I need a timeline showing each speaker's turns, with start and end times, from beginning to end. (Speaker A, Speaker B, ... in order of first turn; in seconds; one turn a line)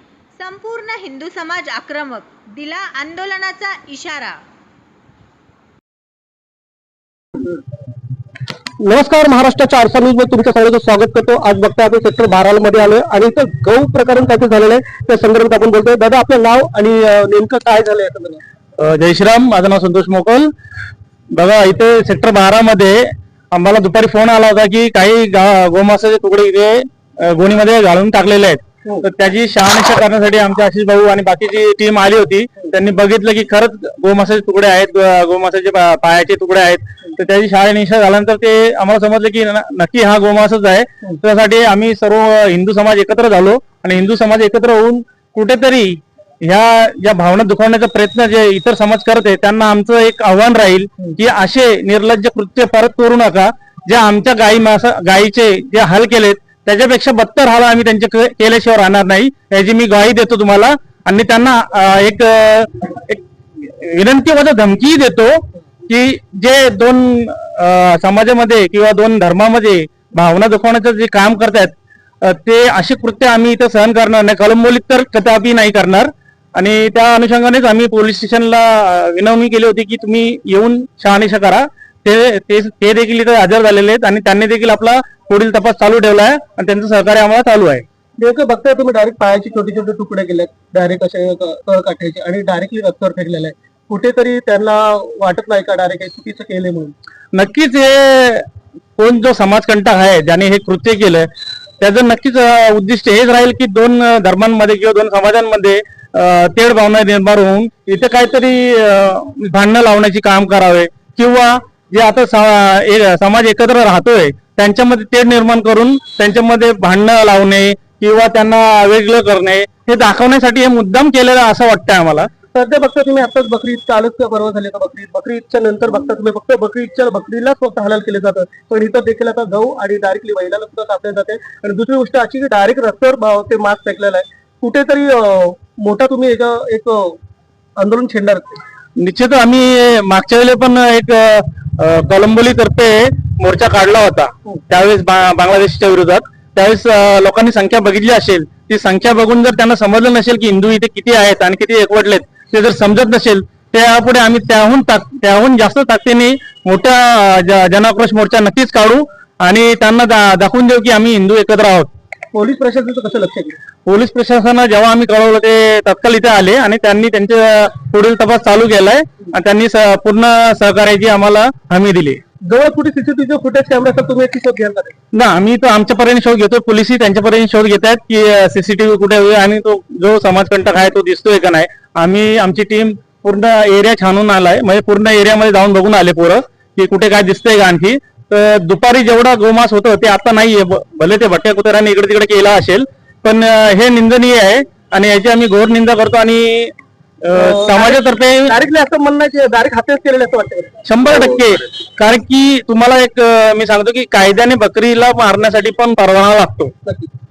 Speaker A: 0.4-4.4
Speaker B: 8.8-18.4
Speaker C: 18.8-20.5
Speaker C: 21.3-87.8
Speaker B: 88.2-96.9
Speaker C: 97.3-98.5
Speaker C: 99.0-122.3
Speaker B: 122.5-137.2
Speaker B: 137.8-138.6
Speaker C: 139.0-161.9
Speaker B: 162.3-163.6
Speaker C: 163.8-172.2
Speaker B: 172.4-174.9
Speaker C: 175.1-198.5
Speaker B: 197.3-200.8
Speaker C: 200.8-206.7